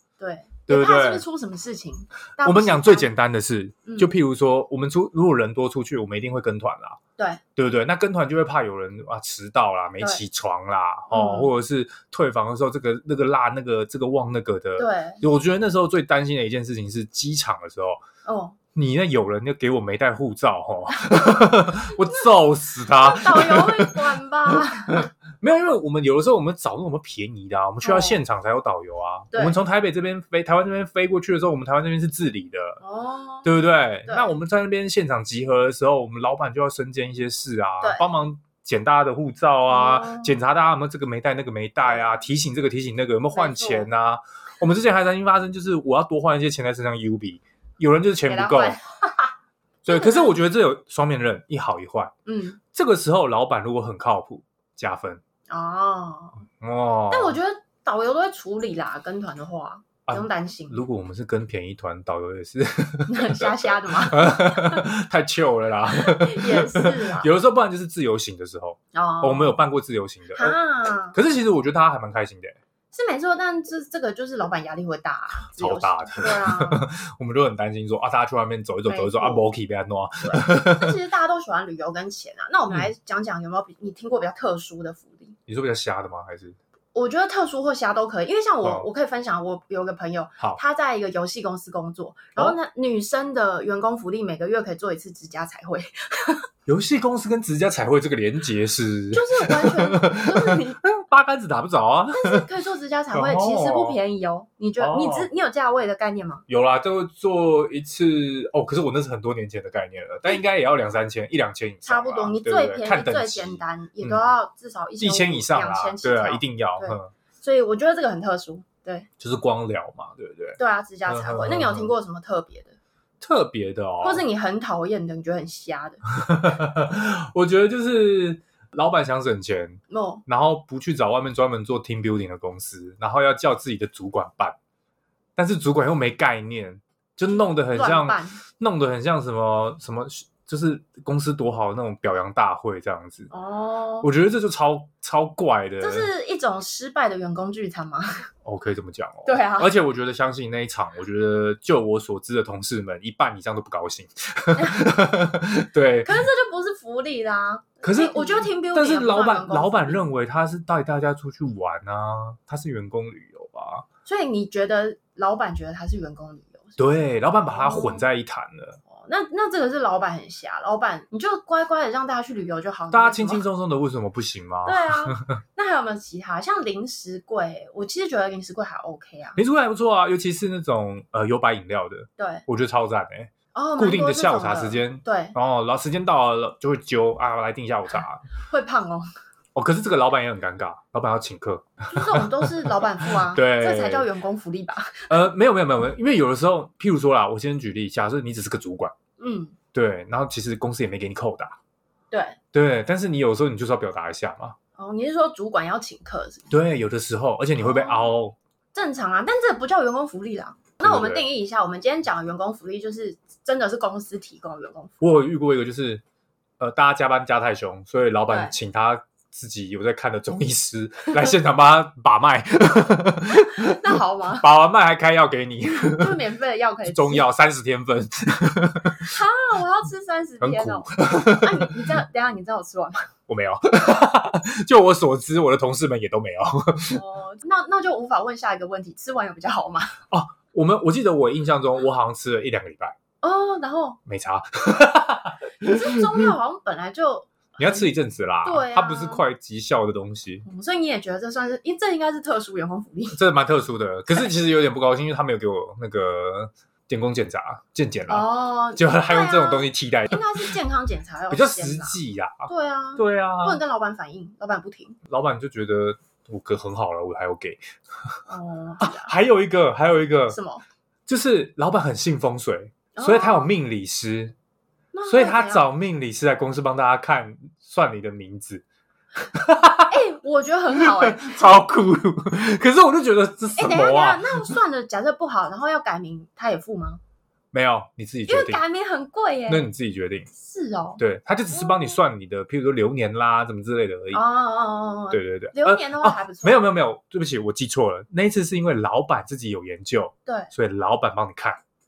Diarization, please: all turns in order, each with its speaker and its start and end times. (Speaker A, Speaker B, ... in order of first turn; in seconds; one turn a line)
Speaker A: 0.2-3.1
Speaker B: 0.7-1.2
Speaker B: 2.4-7.0
Speaker A: 3.9-4.1
Speaker B: 7.6-18.0
Speaker A: 11.1-11.5
Speaker A: 14.8-15.2
Speaker A: 18.2-18.6
Speaker B: 18.8-32.8
Speaker A: 22.9-25.1
Speaker A: 27.8-28.2
Speaker A: 29.3-29.6
Speaker A: 32.8-34.3
Speaker B: 33.5-48.8
Speaker A: 37.8-38.2
Speaker A: 39.7-40.4
Speaker A: 41.9-42.2
Speaker A: 43.4-43.9
Speaker A: 48.3-49.3
Speaker B: 49.9-52.1
Speaker A: 49.9-50.4
Speaker A: 52.3-52.6
Speaker B: 52.7-55.2
Speaker A: 55.5-56.5
Speaker B: 56.6-57.4
Speaker A: 57.1-60.8
Speaker B: 60.1-70.6
Speaker A: 63.1-64.8
Speaker A: 66.0-67.3
Speaker A: 68.9-69.6
Speaker A: 70.3-71.2
Speaker B: 71.1-72.6
Speaker A: 72.9-76.9
Speaker B: 75.5-80.9
Speaker A: 78.9-79.5
Speaker A: 80.2-85.4
Speaker B: 85.5-86.6
Speaker A: 86.9-96.5
Speaker B: 96.7-102.5
Speaker A: 99.1-100.8
Speaker A: 102.1-106.5
Speaker B: 103.1-104.0
Speaker B: 104.8-105.3
Speaker B: 106.5-114.3
Speaker A: 111.8-119.1
Speaker B: 115.0-117.1
Speaker B: 119.2-121.9
Speaker A: 120.6-122.8
Speaker B: 123.2-124.2
Speaker A: 124.0-126.0
Speaker B: 126.2-134.6
Speaker A: 129.9-130.2
Speaker B: 135.4-143.3
Speaker A: 137.3-138.4
Speaker A: 143.3-144.1
Speaker B: 144.0-146.1
Speaker A: 145.8-148.3
Speaker B: 148.4-156.1
Speaker A: 149.3-149.7
Speaker A: 154.6-154.8
Speaker A: 156.0-160.1
Speaker B: 157.8-163.8
Speaker A: 164.1-166.8
Speaker B: 166.8-168.8
Speaker A: 167.4-168.1
Speaker A: 168.9-173.4
Speaker B: 172.9-175.2
Speaker A: 174.7-179.4
Speaker B: 179.4-188.2
Speaker A: 182.2-182.4
Speaker A: 183.5-185.4
Speaker A: 188.4-189.1
Speaker B: 189.6-194.1
Speaker A: 191.9-195.2
Speaker B: 195.1-198.9
Speaker A: 199.2-199.6
Speaker B: 199.7-201.6
Speaker A: 202.1-202.4
Speaker B: 202.5-204.6
Speaker A: 204.8-206.5
Speaker B: 206.5-208.4
Speaker A: 207.6-208.1
Speaker A: 208.7-215.0
Speaker B: 210.8-211.2
Speaker B: 215.0-216.0
Speaker B: 216.6-226.2
Speaker A: 218.3-218.5
Speaker A: 223.3-224.5
Speaker A: 225.7-227.3
Speaker B: 226.8-229.1
Speaker A: 229.0-233.1
Speaker B: 230.4-231.8
Speaker B: 233.3-237.0
Speaker A: 236.9-240.0
Speaker B: 240.1-242.9
Speaker A: 243.2-244.0
Speaker B: 244.1-246.3
Speaker A: 245.6-247.9
Speaker B: 247.6-250.5
Speaker A: 248.4-249.2
Speaker A: 250.4-253.2
Speaker B: 253.2-260.5
Speaker A: 258.1-265.0
Speaker B: 261.3-263.6
Speaker B: 265.1-268.1
Speaker A: 268.3-269.1
Speaker B: 268.8-270.4
Speaker A: 270.3-270.6
Speaker B: 271.1-274.3
Speaker A: 272.9-273.5
Speaker A: 274.9-275.7
Speaker B: 275.1-278.6
Speaker B: 279.3-279.9
Speaker A: 279.9-281.7
Speaker B: 280.7-284.5
Speaker A: 283.6-287.0
Speaker B: 287.5-288.6
Speaker A: 288.3-289.7
Speaker B: 289.5-290.3
Speaker A: 290.3-291.0
Speaker B: 291.0-294.2
Speaker A: 291.6-292.0
Speaker A: 294.1-296.7
Speaker B: 295.1-301.6
Speaker A: 300.3-300.5